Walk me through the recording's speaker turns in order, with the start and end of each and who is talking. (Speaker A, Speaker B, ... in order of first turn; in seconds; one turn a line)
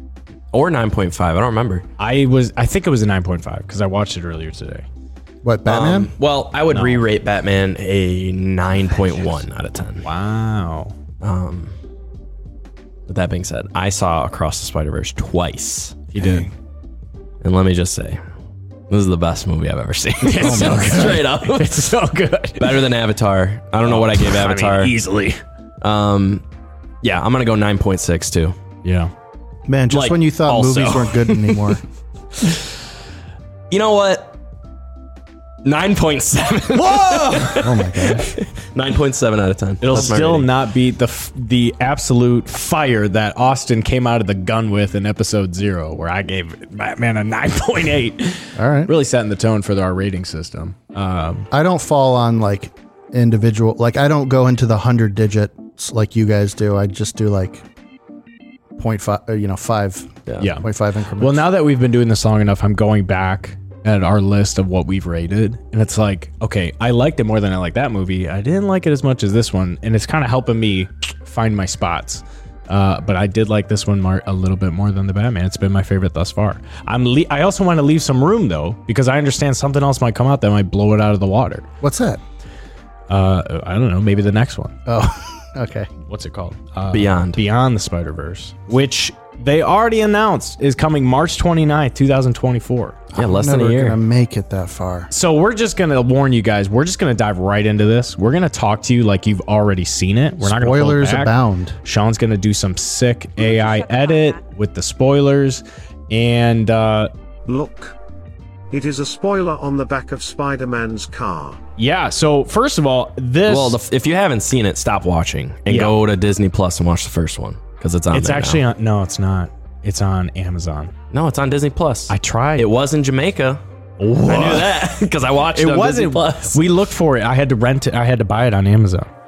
Speaker A: 0.5-1.9
Speaker B: 2.0-4.8
Speaker C: 5.4-6.1
Speaker A: 5.7-10.0
Speaker B: 6.7-7.0
Speaker B: 10.0-10.9
Speaker A: 11.2-11.7
Speaker A: 13.1-16.1
Speaker B: 16.1-16.5
Speaker A: 17.4-18.2
Speaker A: 18.9-21.9
Speaker B: 20.2-22.8
Speaker C: 20.4-21.2
Speaker A: 22.6-24.9
Speaker B: 23.8-25.4
Speaker A: 25.8-26.4
Speaker A: 27.0-28.6
Speaker B: 28.8-29.1
Speaker C: 29.7-31.8
Speaker A: 29.9-31.7
Speaker A: 33.7-34.4
Speaker A: 35.6-40.5
Speaker B: 36.7-37.9
Speaker C: 37.6-38.3
Speaker B: 39.8-51.5
Speaker C: 48.6-48.9
Speaker C: 51.5-57.6
Speaker C: 58.8-61.4
Speaker B: 60.4-60.6
Speaker B: 61.2-81.7
Speaker C: 81.8-82.2
Speaker B: 83.1-84.8
Speaker C: 84.9-85.9
Speaker B: 86.1-93.0
Speaker A: 86.9-87.4
Speaker C: 93.1-95.1
Speaker A: 93.2-94.0
Speaker B: 95.1-101.3
Speaker C: 100.4-101.8
Speaker B: 101.8-107.1
Speaker D: 107.5-108.0
Speaker D: 108.7-111.6
Speaker B: 111.8-113.8
Speaker A: 113.5-118.6
Speaker B: 115.7-116.0
Speaker B: 118.1-120.9
Speaker A: 121.1-123.6
Speaker B: 122.1-122.7
Speaker B: 124.0-124.7
Speaker A: 124.3-126.6
Speaker B: 125.5-129.1